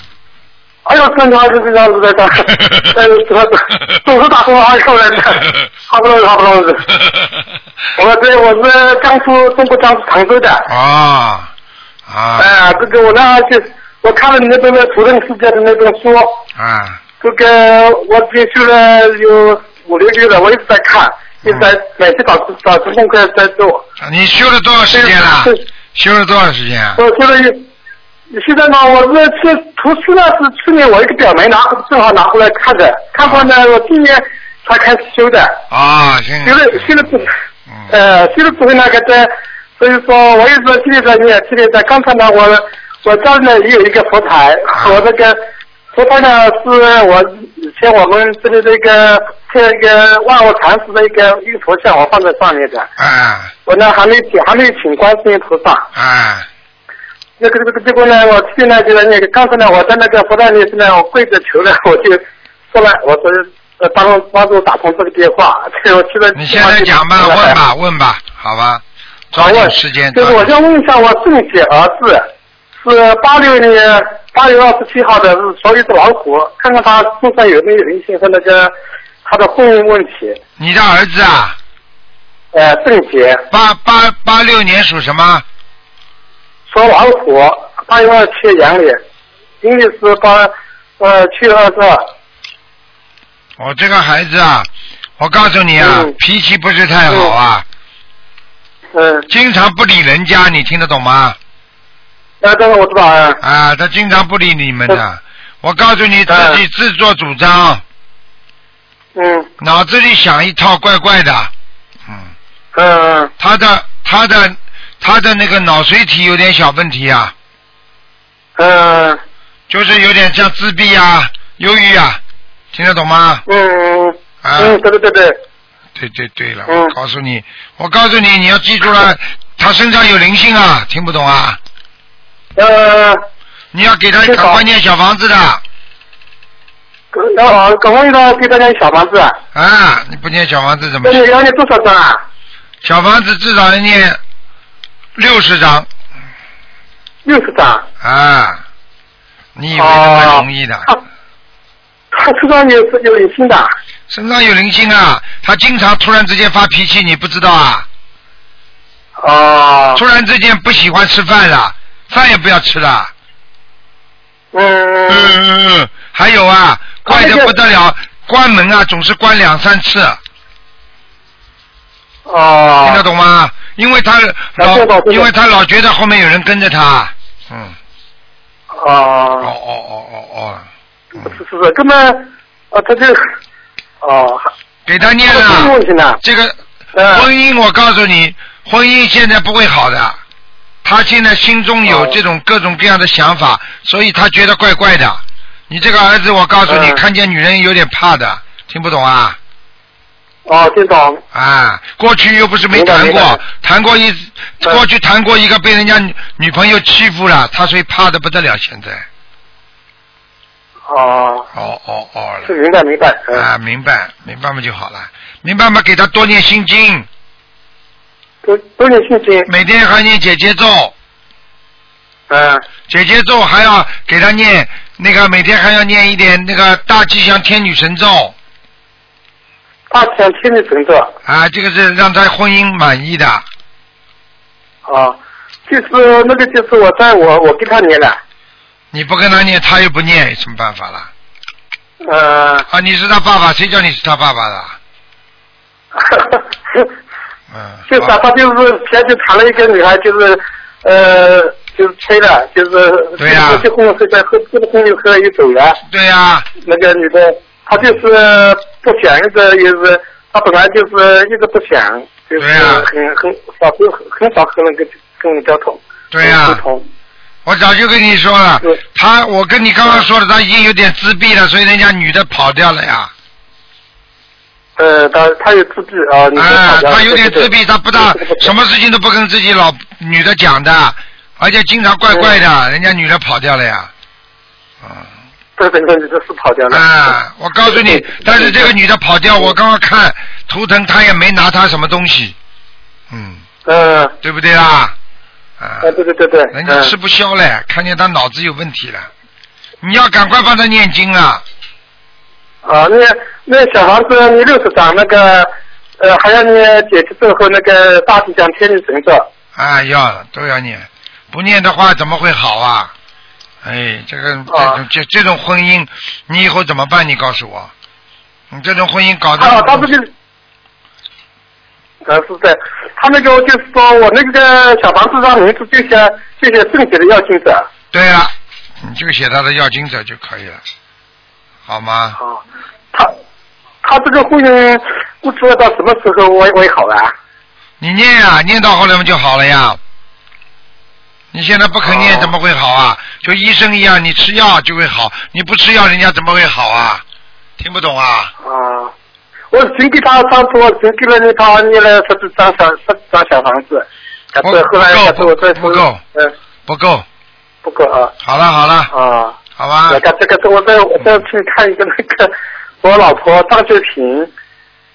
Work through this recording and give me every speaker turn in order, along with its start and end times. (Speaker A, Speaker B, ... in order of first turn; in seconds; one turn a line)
Speaker A: 0.9-6.9
Speaker B: 2.5-2.9
Speaker A: 8.0-10.7
Speaker B: 10.7-11.5
Speaker B: 12.1-12.5
Speaker A: 12.4-16.4
Speaker B: 16.6-17.0
Speaker A: 17.2-23.8
Speaker B: 21.4-21.7
Speaker B: 24.0-27.0
Speaker A: 24.9-25.6
Speaker A: 27.0-27.7
Speaker A: 28.3-35.6
Speaker B: 33.2-33.5
Speaker B: 35.7-37.9
Speaker A: 36.4-37.3
Speaker A: 37.9-45.4
Speaker B: 44.7-45.0
Speaker A: 45.9-52.9
Speaker B: 53.0-53.5
Speaker A: 53.6-55.9
Speaker B: 55.9-56.5
Speaker A: 57.4-67.6
Speaker B: 66.3-70.5
Speaker A: 69.3-72.3
Speaker A: 72.8-78.7
Speaker A: 79.2-80.4
Speaker B: 80.6-81.5
Speaker A: 82.5-83.4
Speaker B: 83.5-85.4
Speaker A: 86.7-89.0
Speaker A: 89.6-92.1
Speaker B: 93.6-97.6
Speaker A: 95.8-96.1
Speaker A: 98.9-99.3
Speaker B: 99.3-101.4
Speaker A: 102.4-103.4
Speaker B: 103.4-107.8
Speaker A: 106.3-106.6
Speaker A: 109.1-109.5
Speaker B: 109.6-111.5
Speaker B: 112.1-112.3
Speaker A: 112.7-113.3
Speaker B: 113.4-117.3
Speaker A: 118.6-119.2
Speaker B: 119.7-122.2
Speaker B: 122.7-123.4
Speaker A: 123.5-125.4
Speaker B: 124.4-124.8
Speaker B: 125.9-131.6
Speaker A: 126.7-126.9
Speaker A: 132.6-133.2
Speaker B: 133.7-135.6
Speaker A: 134.2-134.6
Speaker A: 137.1-139.4
Speaker B: 139.5-141.3
Speaker A: 141.0-142.2
Speaker B: 142.8-144.2
Speaker B: 145.2-145.9
Speaker A: 147.2-147.9
Speaker B: 148.0-148.6
Speaker B: 149.6-150.9
Speaker A: 149.8-151.0
Speaker A: 152.1-153.7
Speaker B: 154.1-157.9
Speaker A: 159.2-160.0
Speaker B: 159.9-163.1
Speaker A: 164.5-165.4
Speaker B: 165.1-170.2
Speaker A: 167.0-167.5
Speaker A: 172.2-173.0
Speaker B: 172.8-177.8
Speaker A: 174.6-175.3
Speaker A: 178.7-179.5
Speaker B: 179.4-180.7
Speaker A: 181.2-183.3
Speaker A: 184.0-184.5
Speaker B: 184.9-190.2
Speaker A: 185.3-186.2
Speaker A: 186.9-187.3
Speaker B: 190.8-199.4
Speaker A: 191.8-192.2
Speaker A: 196.7-197.0
Speaker A: 200.4-201.2
Speaker B: 201.3-209.1
Speaker A: 202.7-203.4
Speaker A: 210.9-211.5
Speaker B: 211.5-212.5
Speaker A: 212.4-213.4
Speaker B: 213.3-217.1
Speaker A: 218.4-219.5
Speaker B: 219.5-220.9
Speaker A: 222.3-222.6
Speaker B: 222.9-228.3
Speaker A: 229.9-231.1
Speaker B: 231.2-233.4
Speaker A: 234.9-235.2
Speaker A: 235.7-238.2
Speaker B: 238.9-241.1
Speaker A: 242.0-242.7
Speaker B: 242.7-244.8
Speaker A: 245.9-246.9
Speaker B: 247.5-248.2
Speaker A: 247.9-255.8
Speaker B: 253.2-253.7
Speaker B: 255.9-256.5
Speaker A: 256.6-266.9
Speaker B: 262.4-262.9
Speaker B: 266.1-266.6
Speaker B: 267.4-273.1
Speaker A: 274.8-278.5
Speaker B: 276.4-283.9
Speaker A: 282.1-282.4
Speaker B: 284.8-285.1
Speaker A: 285.6-288.7
Speaker B: 286.7-292.4
Speaker B: 293.1-293.4
Speaker A: 293.6-294.1
Speaker B: 294.2-294.9
Speaker B: 295.6-295.9
Speaker A: 295.8-296.9
Speaker B: 296.5-299.1
Speaker B: 299.8-301.4
Speaker A: 302.6-309.3
Speaker B: 309.6-312.9
Speaker B: 313.6-317.7
Speaker A: 314.5-314.8
Speaker B: 318.5-319.9
Speaker A: 319.4-320.1
Speaker A: 322.1-327.7
Speaker B: 327.9-330.6
Speaker B: 331.7-332.2
Speaker A: 333.8-337.1
Speaker B: 337.8-339.8
Speaker B: 341.3-347.0
Speaker A: 341.8-342.3
Speaker B: 347.6-348.3
Speaker A: 348.4-348.9
Speaker A: 349.5-356.3
Speaker B: 354.4-356.0
Speaker B: 356.7-357.1
Speaker A: 357.6-358.1
Speaker B: 358.2-358.9
Speaker A: 358.9-359.4
Speaker B: 359.6-360.0
Speaker A: 359.9-364.3